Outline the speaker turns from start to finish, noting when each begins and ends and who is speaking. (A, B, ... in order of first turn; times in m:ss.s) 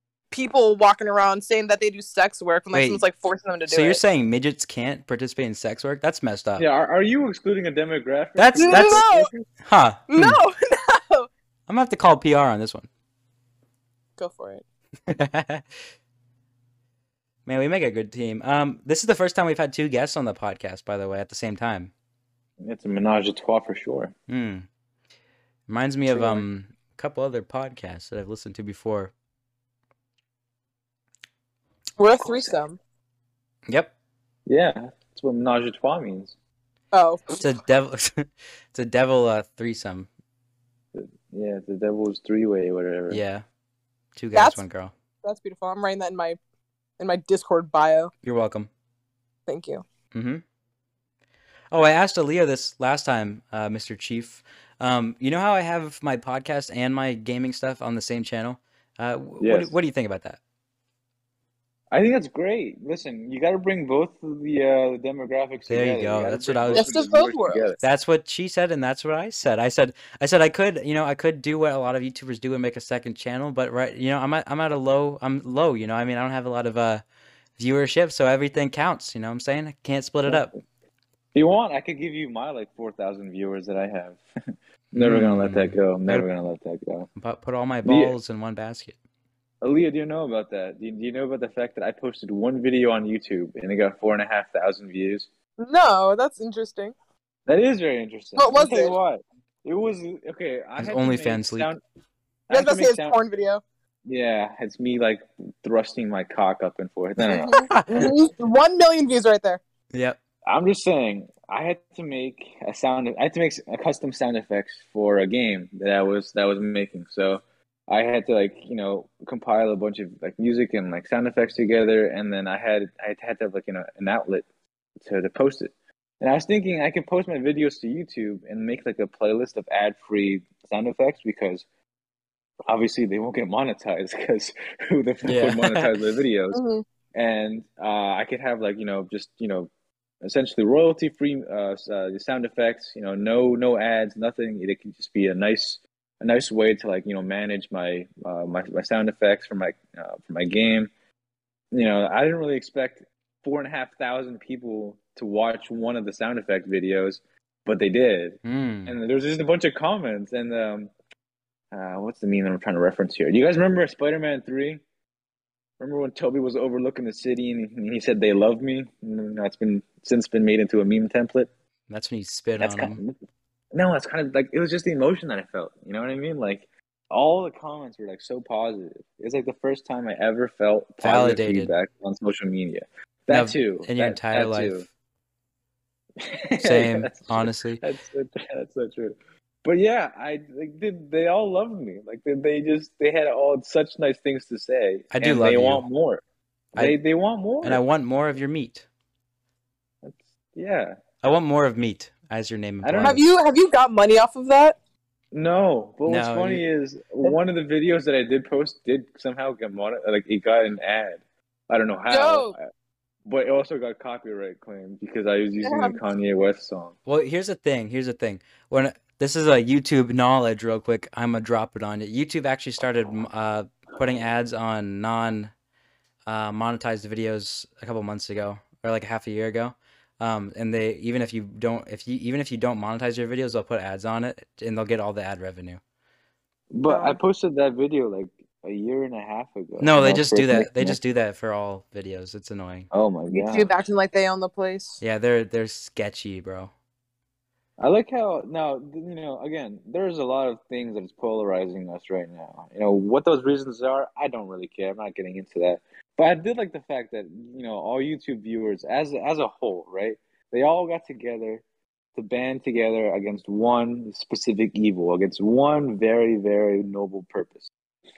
0:00.3-0:04.0 A
0:02.7-0:03.0 B
0:03.6-0:06.6 B
0:06.6-0:09.4 C
0:08.4-0:09.0 B
0:08.6-0:09.3 A
0:09.6-0:10.4 B
0:10.1-0:11.3 A
0:11.7-0:12.9 B
0:14.2-0:14.6 A
0:15.1-0:15.6 B
0:17.4-0:21.9 B
0:22.6-0:24.1 C
0:24.3-0:24.7 B
0:25.7-0:29.1 B
0:26.1-0:26.4 C
0:32.0-0:32.8 A
0:32.1-0:32.6 C
0:33.7-0:33.9 B
0:34.4-0:36.3 C
0:36.9-0:37.3 A
0:37.4-0:40.1 B
0:40.9-0:43.2 C
0:43.1-0:43.4 B
0:44.2-0:44.9 B
0:44.3-0:44.6 A
0:45.2-0:46.4 A
0:47.0-0:48.1 A
0:48.2-0:48.7 B
0:49.5-0:49.8 A
0:50.1-0:50.4 B
0:51.7-1:00.4 B
0:59.4-0:59.8 C
1:01.9-1:07.8 C
1:05.7-1:07.0 B
1:06.7-1:07.7 A
1:07.8-1:17.0 B
1:17.6-1:20.6 B
1:21.3-1:24.2 C
1:24.9-1:26.2 B
1:24.9-1:27.1 C
1:27.2-1:29.0 B
1:27.8-1:28.2 C
1:29.6-1:35.3 C
1:35.6-1:36.9 A
1:37.5-1:41.8 C
1:38.4-1:38.9 A
1:40.8-1:41.7 B
1:42.5-1:43.2 C
1:42.5-1:43.6 A
1:44.0-1:48.1 C
1:47.3-1:49.6 A
1:47.5-1:48.1 B
1:49.9-1:50.2 B
1:50.4-2:04.5 C
2:05.0-2:11.6 C
2:12.7-2:16.6 C
2:15.2-2:15.9 B
2:16.5-2:16.8 A
2:17.1-2:19.7 C
2:20.2-2:30.9 C
2:31.7-2:40.9 C
2:38.4-2:38.9 B
2:41.7-2:44.8 C
2:45.8-2:51.5 C
2:51.9-2:53.0 B
2:52.6-2:53.2 C
2:53.7-3:04.9 C
3:01.0-3:01.7 B
3:03.3-3:04.8 B
3:06.2-3:16.2 C
3:06.6-3:07.8 B
3:15.1-3:15.8 B
3:16.8-3:17.8 C
3:17.6-3:18.9 B
3:20.0-3:21.0 C
3:21.2-3:23.3 B
3:22.8-3:23.2 C
3:23.0-3:24.8 A
3:25.3-3:32.6 C
3:26.1-3:26.6 B
3:32.1-3:32.5 A
3:33.2-3:36.9 C
3:35.6-3:36.0 A
3:37.0-3:45.5 B
3:46.3-3:55.8 B
3:56.7-4:01.0 C
3:56.9-3:57.2 A
3:59.8-4:02.9 B
4:02.9-4:03.7 C
4:03.3-4:05.0 A
4:05.0-4:06.7 B
4:07.8-4:21.6 C
4:22.1-4:27.7 C